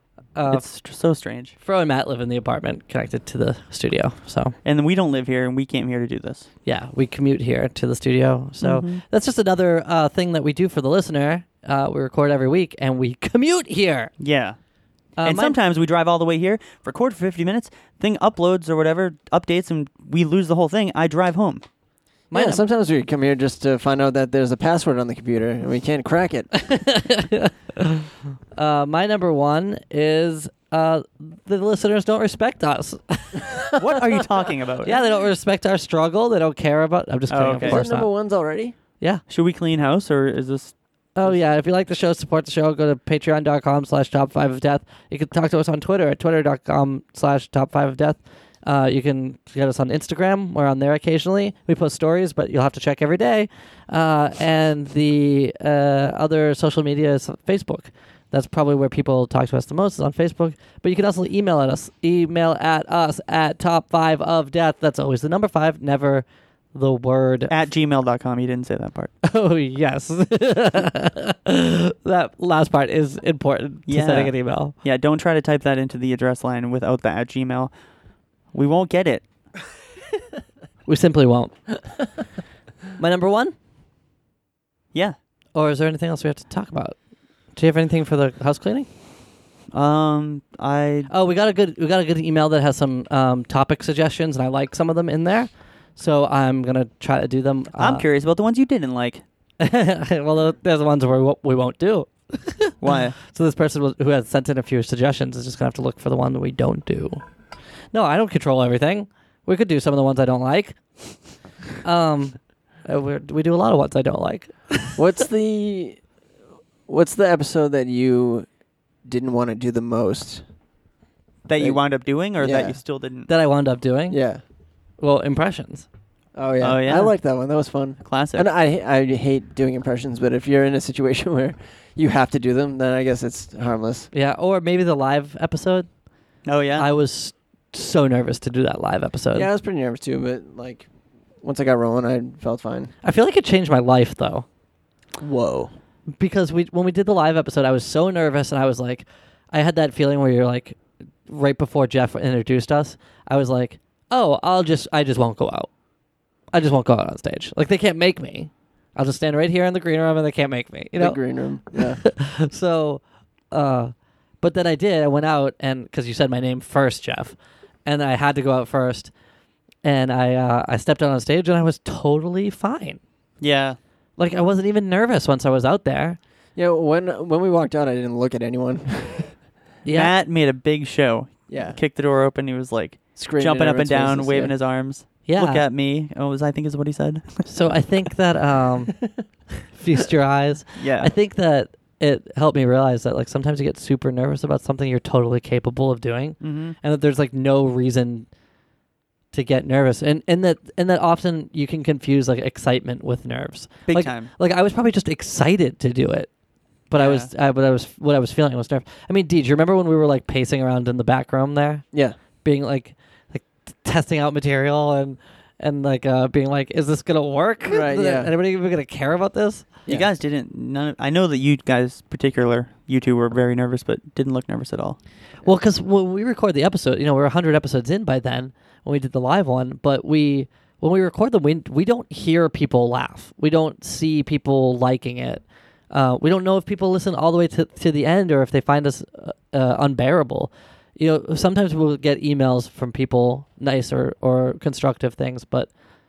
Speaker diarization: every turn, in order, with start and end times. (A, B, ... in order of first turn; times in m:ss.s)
0:00.4-0:00.6 A
0:00.5-0:01.5 B
0:01.6-0:04.6 A
0:04.6-0:06.5 B
0:06.7-0:14.1 A
0:08.6-0:09.0 B
0:14.2-0:14.6 B
0:15.2-0:15.6 A
0:15.2-0:21.6 B
0:22.3-0:22.6 A
0:22.3-0:26.5 C
0:26.6-0:33.6 A
0:33.8-0:35.0 B
0:34.8-0:38.1 A
0:37.3-0:37.8 B
0:37.6-0:38.8 C
0:39.3-0:40.8 B
0:41.2-1:07.5 A
1:07.5-1:09.1 B
1:09.2-1:14.7 A
1:13.9-1:17.7 B
1:18.5-1:19.3 B
1:20.9-1:21.6 A
1:23.0-1:23.5 A
1:25.6-1:27.0 A
1:27.5-1:28.9 A
1:29.7-1:31.1 B
1:31.1-1:38.0 A
1:37.8-1:39.2 B
1:39.6-1:47.2 A
1:42.8-1:43.2 B
1:47.9-1:50.8 A
1:51.8-1:55.0 A
1:55.0-1:56.0 C
1:56.9-1:58.5 C
1:59.0-2:00.4 C
2:01.5-2:03.3 B
2:02.4-2:02.8 C
2:03.3-2:04.2 A
2:04.1-2:04.4 C
2:05.0-2:05.9 A
2:06.4-2:14.1 C
2:06.6-2:07.1 B
2:08.0-2:08.5 B
2:14.1-2:15.9 A
2:16.4-2:16.9 B
2:16.8-2:19.5 A
2:19.4-2:20.9 C
2:21.4-2:22.9 C
2:23.0-2:24.5 A
2:25.2-2:25.7 C
2:26.2-2:35.7 A
2:36.5-2:41.2 A
2:41.0-2:42.0 C
2:41.7-2:49.1 A
2:49.8-2:53.0 A
2:53.4-2:53.8 B
2:54.2-2:56.2 A
2:56.6-2:59.4 C
2:59.8-3:00.1 A
2:59.9-3:07.5 B
3:01.5-3:01.8 C
3:03.2-3:04.5 C
3:05.3-3:05.6 A
3:07.5-3:09.1 A
3:09.7-3:18.3 A
3:10.8-3:11.1 B
3:16.4-3:16.8 B
3:19.3-3:26.3 A
3:23.9-3:24.3 B
3:26.9-3:31.9 A
3:27.0-3:27.3 B
3:32.4-3:39.7 A
3:37.6-3:38.3 C
3:39.9-3:45.0 B
3:45.4-4:05.7 A